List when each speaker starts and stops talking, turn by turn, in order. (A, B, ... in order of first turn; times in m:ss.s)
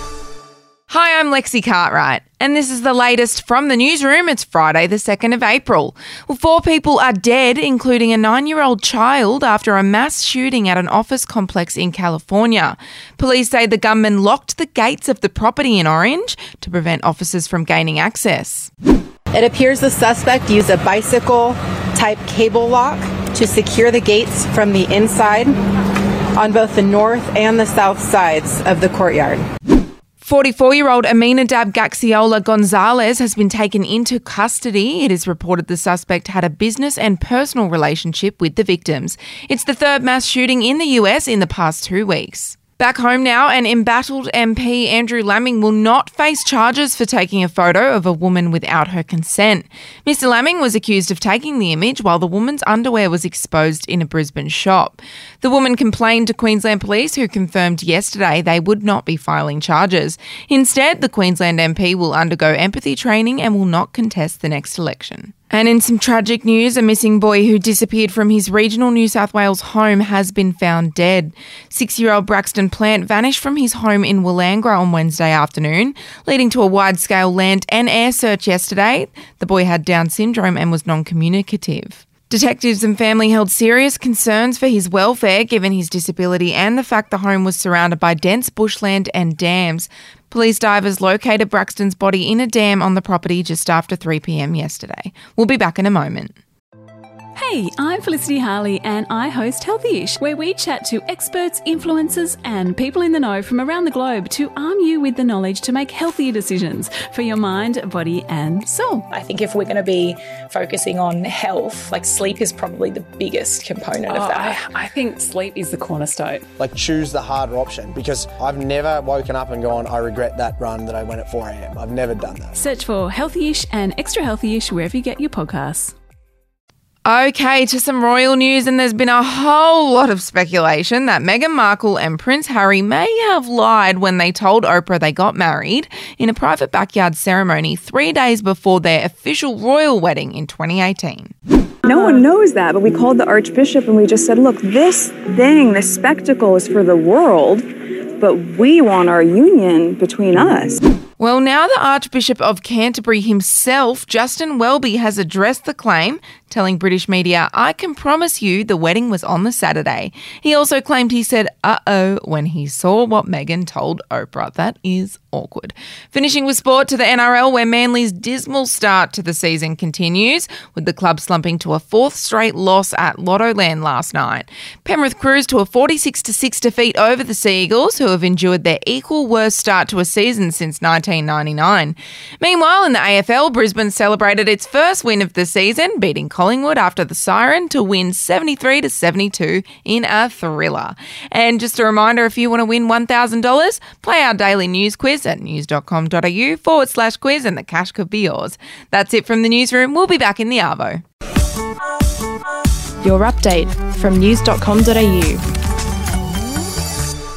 0:00.9-0:18.7 A
0:19.3-0:25.5 B
0:26.3-0:29.4 B
0:30.2-1:36.3 A
1:37.4-1:49.0 C
1:49.1-1:54.7 D
1:54.0-1:56.4 C
1:56.6-2:02.6 E
2:02.5-2:05.9 C
2:07.1-2:21.3 A
2:21.8-2:27.7 F
2:21.9-2:22.2 C
2:28.2-2:30.8 F
2:31.2-3:21.0 A
3:23.0-3:25.4 G